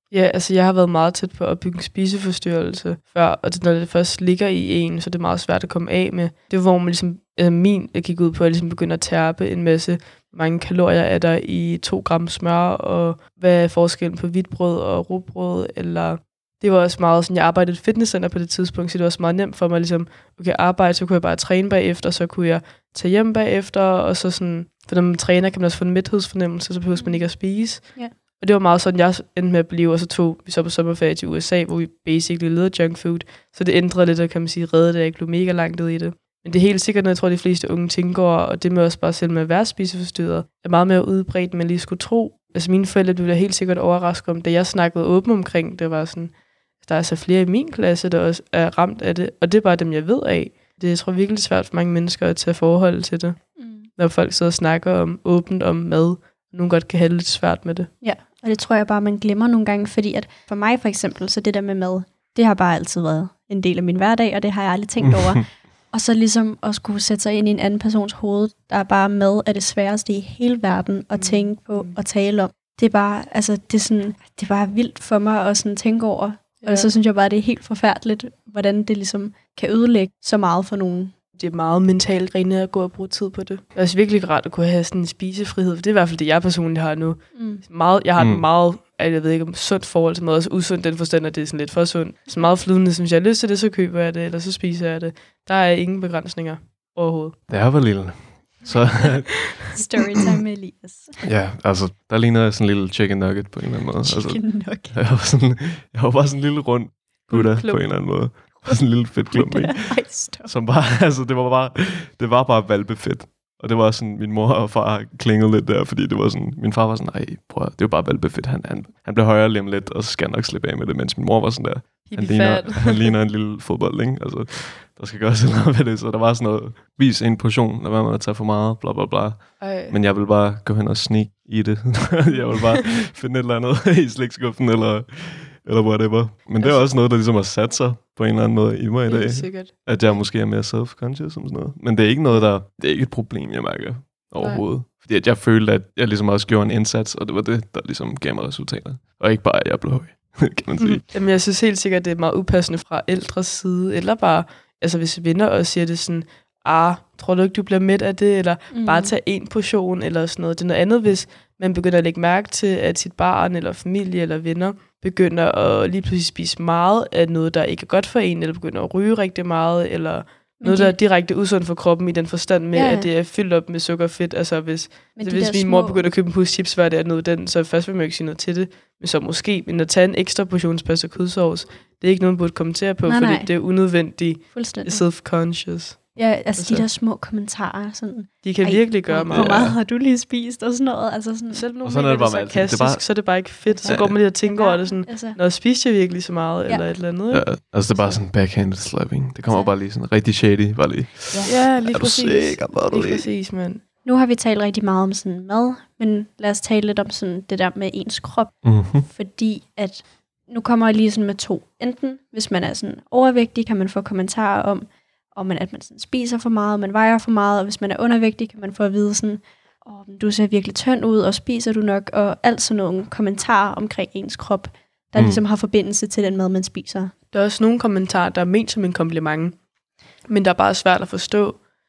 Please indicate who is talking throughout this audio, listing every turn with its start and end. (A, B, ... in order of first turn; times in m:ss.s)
0:00.1-0:57.9 A
0:27.0-0:28.1 B
0:53.6-0:53.9 B
0:58.0-1:21.1 B
1:05.0-1:05.4 C
1:11.2-1:12.0 A
1:16.6-1:16.9 A
1:21.4-1:37.4 A
1:27.4-1:27.6 B
1:28.2-1:28.4 C
1:37.5-1:39.6 C
1:39.7-1:41.2 B
1:41.2-2:31.0 C
1:44.0-1:45.0 B
1:47.3-1:47.8 A
1:49.3-1:50.5 B
2:02.1-2:03.2 A
2:09.6-2:10.0 A
2:19.1-2:19.7 A
2:30.8-3:06.9 A
2:38.7-2:39.1 B
2:50.6-2:51.0 B
2:52.7-2:53.1 B
2:55.2-2:56.1 B
3:03.0-3:03.6 B
3:04.5-3:05.0 B
3:06.2-3:11.7 B
3:08.4-3:09.7 A
3:09.3-3:09.8 C
3:11.5-3:18.2 A
3:11.8-3:14.2 C
3:13.7-3:15.4 B
3:17.3-3:23.3 C
3:19.5-3:19.7 B
3:21.4-3:23.8 A
3:24.0-3:47.1 B
3:28.6-3:29.1 C
3:45.2-3:45.4 C
3:47.3-3:49.6 A
3:50.3-3:51.6 A